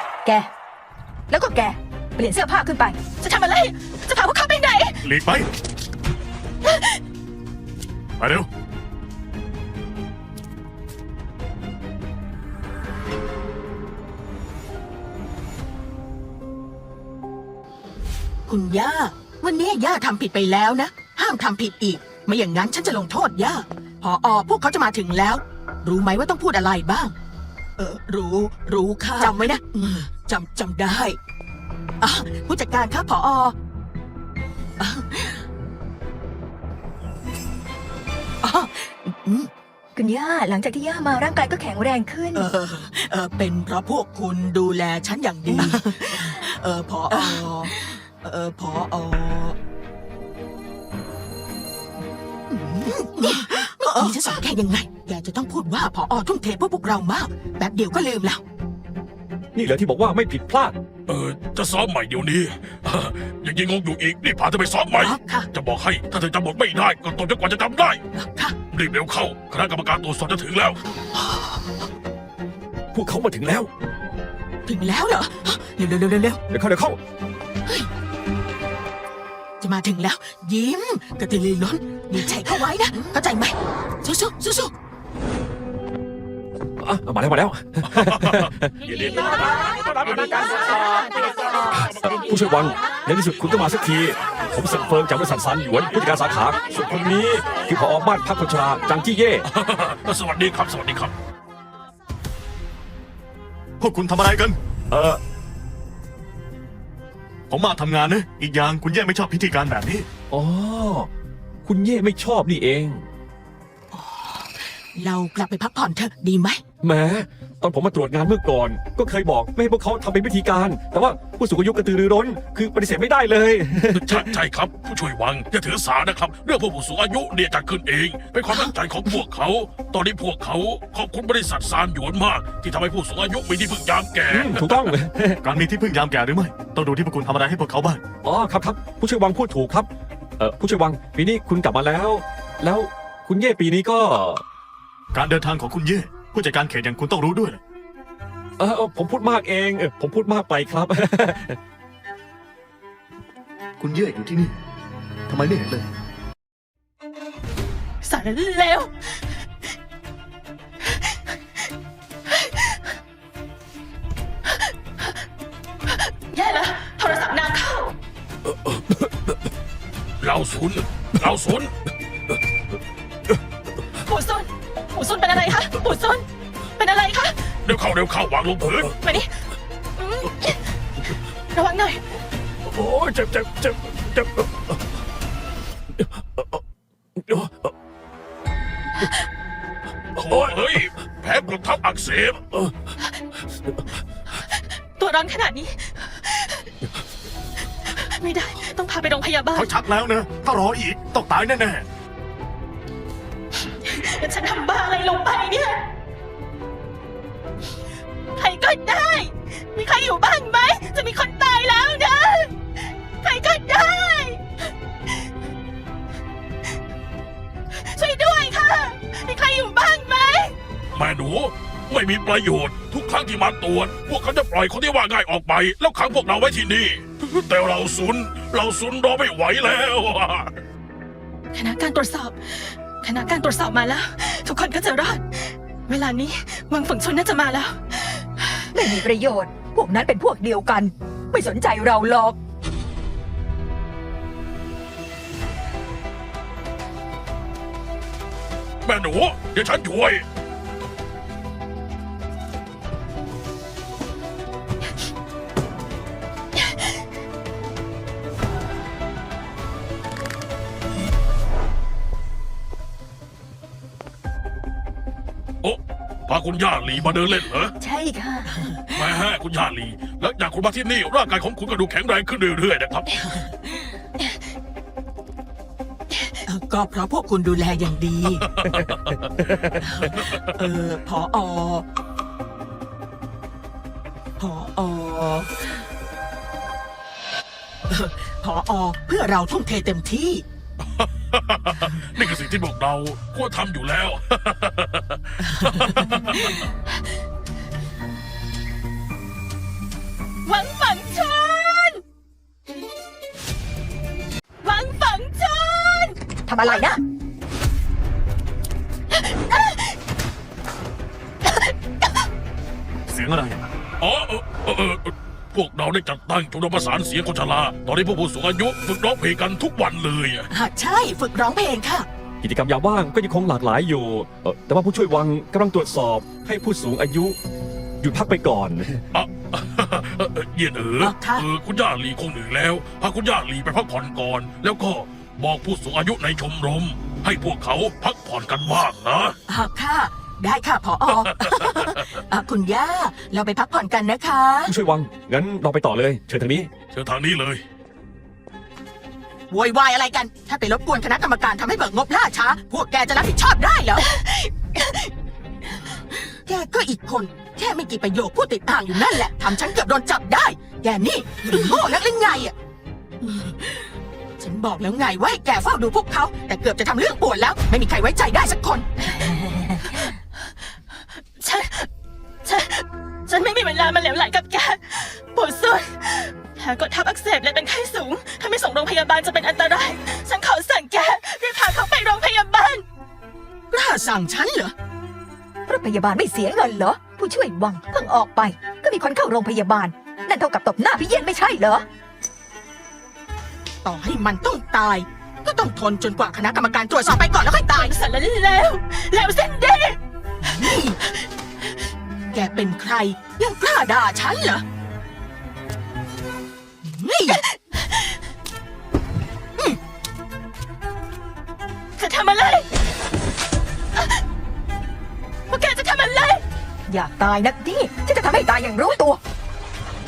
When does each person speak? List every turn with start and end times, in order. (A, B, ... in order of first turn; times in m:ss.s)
0:00.2-0:00.5 A
0:01.3-0:03.0 A
0:03.2-0:05.0 B
0:05.0-0:05.5 C
0:06.6-0:07.0 B
0:08.2-0:08.5 C
0:18.5-0:27.1 D
0:27.8-0:31.2 D
0:32.0-0:33.5 D
0:34.8-0:35.4 D
0:38.4-0:39.5 D
0:40.0-0:42.4 A
0:42.3-0:49.6 D
0:52.5-0:58.4 D
0:59.5-1:00.7 E
1:01.1-1:08.0 F
1:05.0-1:05.5 D
1:08.1-1:08.6 D
1:08.7-1:10.8 F
1:12.9-1:13.7 E
1:14.6-1:16.4 D
1:16.5-1:17.0 E
1:19.6-1:24.7 D
1:26.8-1:28.7 E
1:27.9-1:31.7 F
1:30.0-1:31.1 E
1:31.6-1:39.4 E
1:39.5-1:41.1 F
1:43.8-1:44.6 C
1:44.9-1:45.2 E
1:47.5-1:50.1 C
1:50.3-1:51.1 E
1:51.6-1:53.1 E
1:53.9-1:56.6 D
1:56.8-2:04.4 E
2:03.9-2:14.9 F
2:14.3-2:15.4 E
2:15.4-2:18.0 C
2:18.2-2:24.4 E
2:25.1-2:27.6 C
2:28.6-2:31.6 E
2:33.8-2:34.5 C
2:35.3-2:35.8 C
2:38.0-2:39.1 B
2:40.8-2:41.2 B
2:42.3-2:42.8 B
2:46.3-2:47.9 B
2:50.2-2:51.7 F
2:54.0-2:56.2 B
2:56.8-2:57.4 B
2:57.6-2:58.9 F
2:58.9-2:59.4 B
3:00.0-3:00.7 B
3:01.5-3:02.0 B
3:02.7-3:04.5 E
3:06.2-3:06.4 E
3:07.2-3:07.7 E
3:10.2-3:12.5 F
3:10.2-3:10.9 E
3:14.4-3:16.7 B
3:17.8-3:19.8 B
3:19.5-3:21.8 C
3:23.8-3:25.8 B
3:28.4-3:32.5 B
3:33.2-3:34.4 B
3:37.7-3:40.5 B
3:40.9-3:50.6 F
3:51.5-3:58.5 B
3:58.7-4:02.4 A
4:08.8-4:10.2 F
4:25.6-4:27.7 F
4:27.8-4:28.6 A
4:28.9-4:33.3 F
4:33.2-4:33.8 D
4:36.5-4:38.5 D
4:38.6-4:39.0 F
4:39.3-4:39.7 E
4:39.8-4:41.8 D
4:44.4-4:45.5 D
4:47.9-4:50.4 D
4:51.0-4:56.7 F
4:55.5-4:55.9 D
5:00.4-5:02.0 B
5:04.6-5:06.2 B
5:06.4-5:07.0 A
5:09.1-5:09.9 B
5:11.4-5:11.7 B
5:13.1-5:13.6 C
5:14.0-5:20.5 F
5:20.5-5:22.1 D
5:22.4-5:27.4 E
5:28.0-5:29.0 E
5:29.1-5:39.4 F
5:31.0-5:31.4 D
5:39.5-5:44.7 D
5:41.2-5:42.0 F
5:44.6-5:46.7 E
5:46.9-5:47.6 F
5:49.5-5:55.0 D
5:55.9-6:02.5 D
6:03.2-6:03.9 D
6:04.4-6:08.9 D
6:09.2-6:10.1 B
6:11.4-6:11.9 B
6:12.4-6:22.8 B
6:23.7-6:24.7 D
6:25.7-6:31.8 A
6:33.8-6:37.9 D
6:37.7-6:40.0 B
6:40.4-6:41.0 D
6:42.3-6:44.6 D
6:46.8-6:47.4 D
6:47.3-6:48.1 B
6:52.0-6:52.7 B
6:54.0-6:54.2 B
6:55.5-6:56.4 B
6:56.9-6:59.2 A